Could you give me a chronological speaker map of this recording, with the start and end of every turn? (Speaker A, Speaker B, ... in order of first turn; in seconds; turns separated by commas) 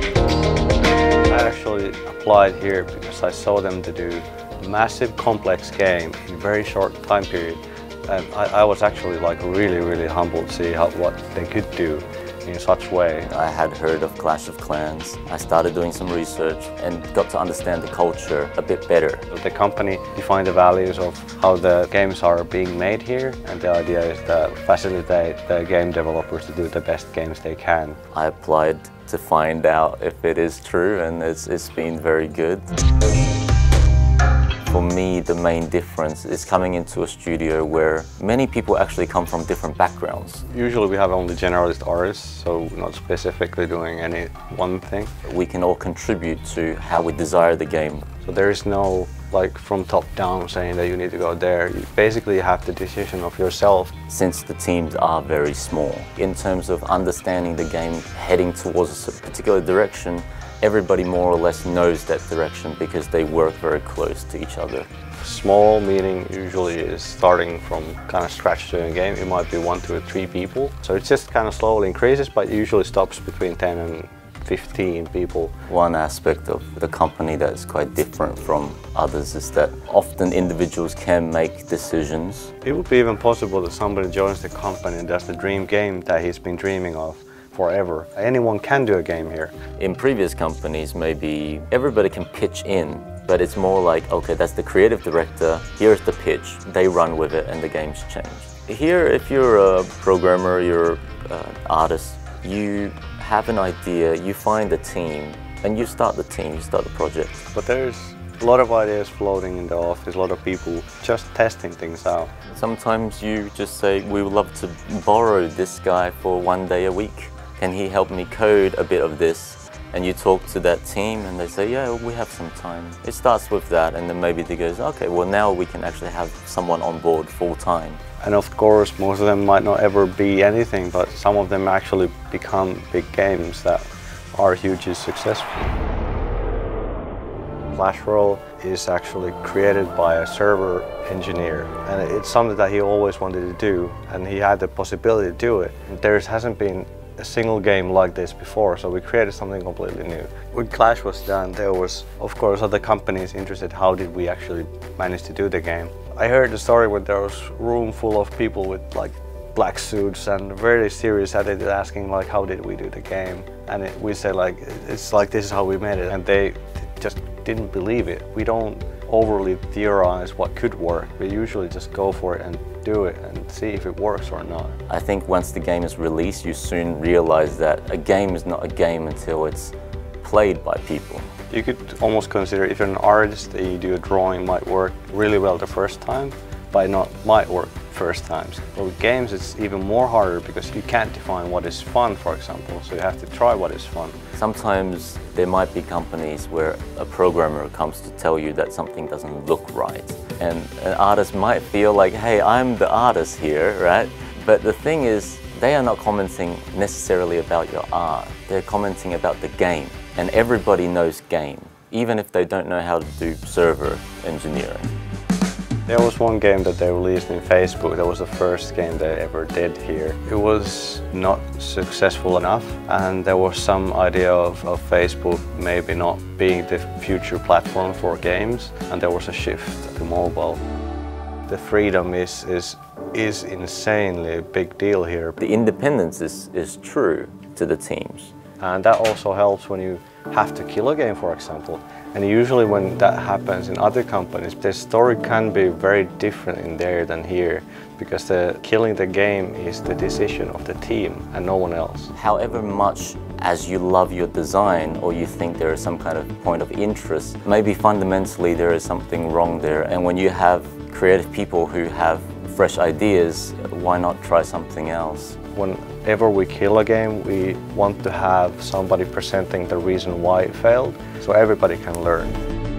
Speaker A: 1.3-13.3, Speaker B: 13.3-19.3, Speaker A: 19.3-28.0, Speaker B: 28.1-32.7, Speaker B: 34.7-40.4, Speaker A: 40.5-45.1, Speaker B: 45.2-48.1, Speaker A: 48.2-54.0, Speaker B: 54.1-64.9, Speaker A: 65.2-75.5, Speaker B: 75.7-82.5, Speaker A: 82.7-89.6, Speaker B: 89.8-107.5, Speaker A: 107.5-112.3, Speaker B: 112.5-128.0, Speaker A: 128.2-135.7, Speaker A: 137.7-174.8, Speaker B: 174.9-181.3, Speaker A: 181.5-194.2, Speaker B: 194.4-214.9, Speaker A: 215.9-230.6, Speaker A: 231.5-235.4, Speaker B: 235.4-238.3, Speaker A: 238.6-252.1, Speaker B: 252.1-265.4, Speaker A: 265.6-272.4